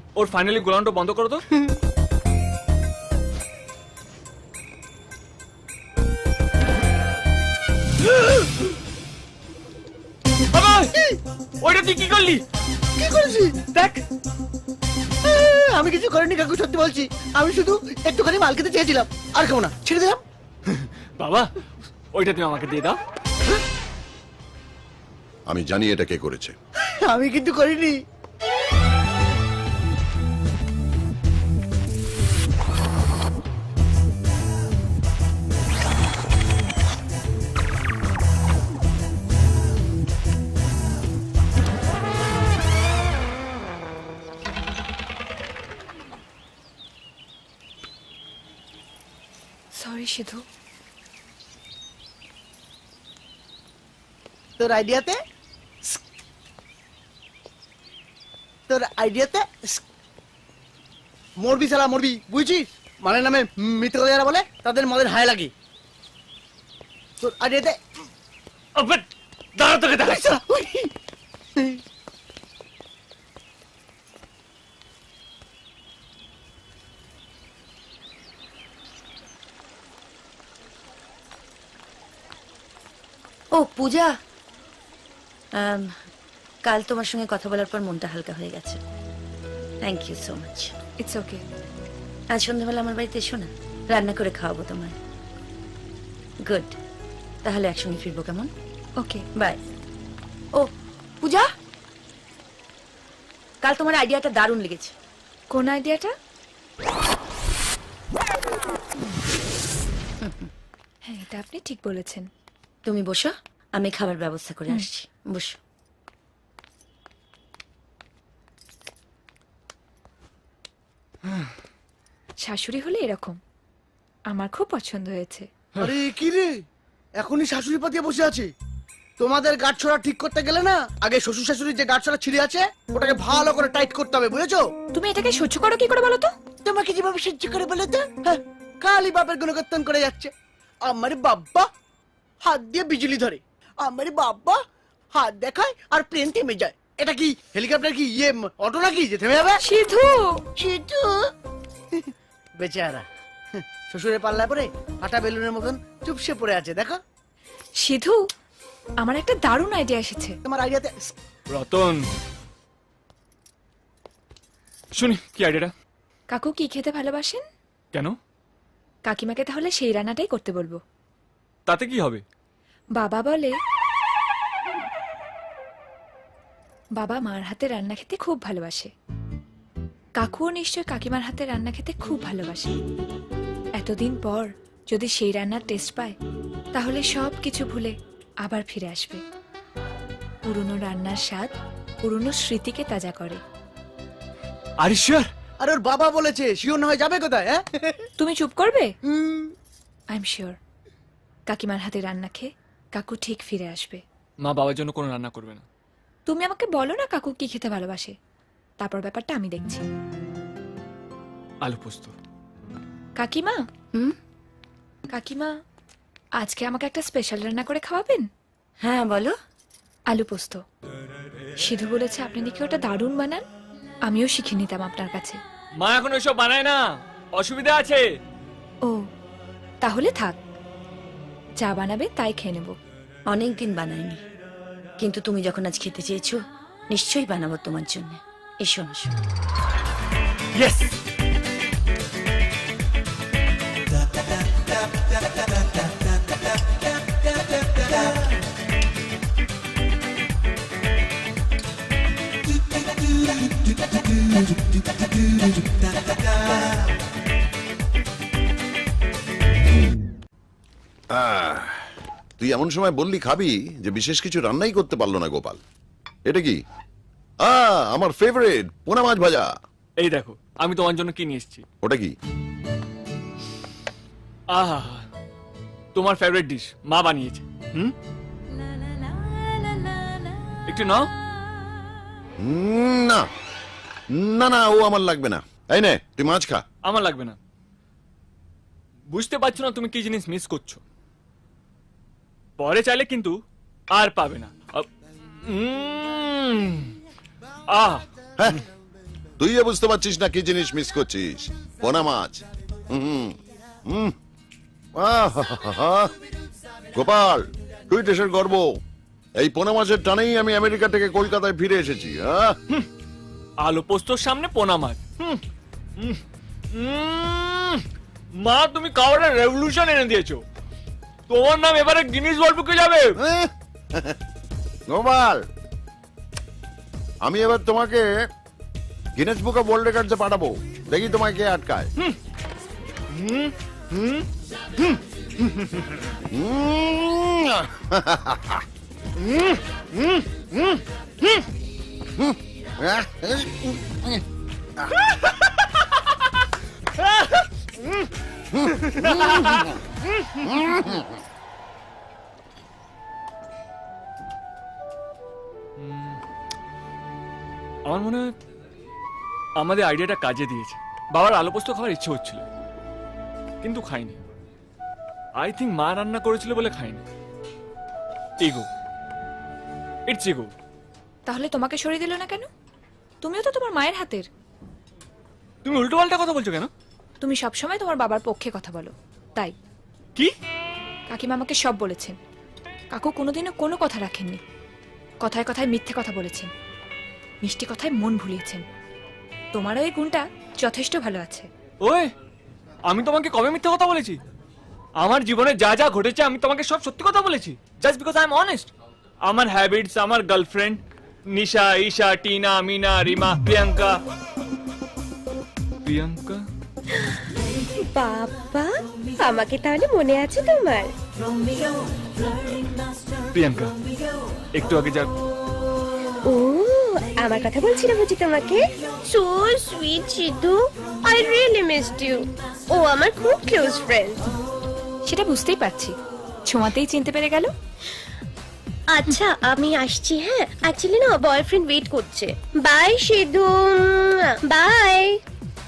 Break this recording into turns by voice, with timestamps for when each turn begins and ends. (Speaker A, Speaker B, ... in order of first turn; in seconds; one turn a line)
Speaker A: 0.2-1.5
Speaker A: 10.5-11.0
Speaker A: 11.6-12.4
Speaker B: 13.0-13.6
Speaker A: 13.7-14.0
Speaker B: 15.2-20.2
Speaker A: 20.7-21.5
Speaker A: 22.1-23.0
Speaker C: 25.5-26.6
Speaker B: 27.0-28.0
Speaker D: 49.8-50.4
Speaker B: 54.6-55.2
Speaker B: 58.7-59.8
Speaker B: 61.4-65.5
Speaker B: 67.2-67.8
Speaker A: 68.8-70.4
Speaker B: 70.1-70.9
Speaker E: 83.5-84.1
Speaker E: 85.6-85.9
Speaker E: 86.7-88.8
Speaker E: 89.8-90.7
Speaker D: 91.0-91.4
Speaker E: 92.3-95.0
Speaker E: 96.4-96.8
Speaker E: 97.4-98.5
Speaker D: 99.0-99.3
Speaker E: 99.3-99.6
Speaker E: 100.5-101.5
Speaker E: 103.6-104.9
Speaker D: 105.5-106.1
Speaker E: 110.2-110.5
Speaker D: 111.0-112.3
Speaker E: 112.8-115.6
Speaker D: 122.4-123.4
Speaker D: 124.3-125.5
Speaker B: 125.8-126.5
Speaker B: 127.2-128.5
Speaker B: 129.2-134.7
Speaker D: 134.9-136.3
Speaker B: 136.6-140.3
Speaker B: 140.8-141.7
Speaker B: 142.4-144.6
Speaker B: 145.2-149.6
Speaker D: 149.6-150.4
Speaker B: 150.6-151.3
Speaker B: 151.9-157.0
Speaker D: 157.8-158.2
Speaker D: 159.0-160.4
Speaker B: 160.4-161.1
Speaker A: 161.5-162.0
Speaker A: 164.9-165.7
Speaker D: 166.3-167.4
Speaker D: 169.1-170.8
Speaker A: 171.7-172.2
Speaker D: 173.0-173.5
Speaker D: 177.0-178.9
Speaker D: 180.2-182.8
Speaker D: 183.8-186.2
Speaker D: 186.8-189.2
Speaker D: 190.4-191.5
Speaker D: 192.0-193.4
Speaker A: 194.8-195.3
Speaker B: 195.6-198.1
Speaker D: 198.2-198.9
Speaker B: 199.1-199.6
Speaker D: 200.1-200.6
Speaker D: 201.5-204.0
Speaker A: 204.4-205.7
Speaker D: 206.3-208.1
Speaker D: 208.8-209.8
Speaker A: 211.6-212.1
Speaker D: 213.2-213.6
Speaker D: 215.1-215.5
Speaker D: 216.4-218.3
Speaker E: 218.8-219.4
Speaker D: 220.1-220.6
Speaker D: 221.6-223.4
Speaker D: 224.1-225.4
Speaker A: 225.8-228.1
Speaker D: 229.8-230.4
Speaker D: 231.6-232.8
Speaker E: 233.3-234.2
Speaker E: 235.0-239.1
Speaker A: 240.6-241.0
Speaker C: 261.1-261.8
Speaker C: 262.4-265.6
Speaker C: 266.3-266.6
Speaker C: 267.4-269.5
Speaker A: 270.0-271.6
Speaker C: 271.8-272.1
Speaker A: 274.5-275.1
Speaker A: 275.9-277.9
Speaker A: 280.7-281.1
Speaker C: 282.4-283.3
Speaker C: 284.2-286.6
Speaker A: 286.9-287.4
Speaker A: 289.1-290.8
Speaker A: 292.6-293.4
Speaker A: 293.9-294.9
Speaker A: 295.4-296.9
Speaker A: 297.7-298.0
Speaker C: 299.4-303.4
Speaker C: 303.9-304.1
Speaker C: 305.0-306.1
Speaker C: 306.9-308.7
Speaker C: 309.4-312.6
Speaker A: 313.6-315.4
Speaker A: 316.7-317.8
Speaker A: 318.4-320.4
Speaker A: 321.3-323.2
Speaker C: 323.2-324.2
Speaker C: 324.9-325.4
Speaker C: 327.2-328.1
Speaker C: 329.2-331.9
Speaker A: 333.1-334.3
Speaker A: 334.8-335.8
Speaker C: 336.3-338.6
Speaker A: 339.2-341.4
Speaker C: 342.2-344.1
Speaker A: 345.2-346.0
Speaker A: 346.9-347.5
Speaker A: 348.6-351.0
Speaker C: 348.8-349.6
Speaker A: 355.8-356.2
Speaker A: 357.9-358.3
Speaker A: 359.6-362.4
Speaker A: 363.6-364.2
Speaker A: 365.4-367.0
Speaker A: 368.4-368.7
Speaker A: 370.1-370.5
Speaker D: 371.3-372.5
Speaker D: 373.2-374.3
Speaker A: 375.6-376.7
Speaker D: 377.2-379.5
Speaker D: 381.1-382.2
Speaker D: 382.9-384.4
Speaker D: 385.2-386.5
Speaker D: 387.4-388.6
Speaker D: 389.5-391.5
Speaker A: 391.8-392.1
Speaker A: 392.9-394.2
Speaker A: 395.0-398.7
Speaker A: 399.3-400.8
Speaker A: 401.3-404.0
Speaker A: 405.8-406.4
Speaker F: 407.9-410.9
Speaker A: 413.3-413.7
Speaker A: 414.6-415.1
Speaker F: 416.2-424.4
Speaker D: 425.1-425.9
Speaker D: 426.5-427.5
Speaker F: 428.9-435.2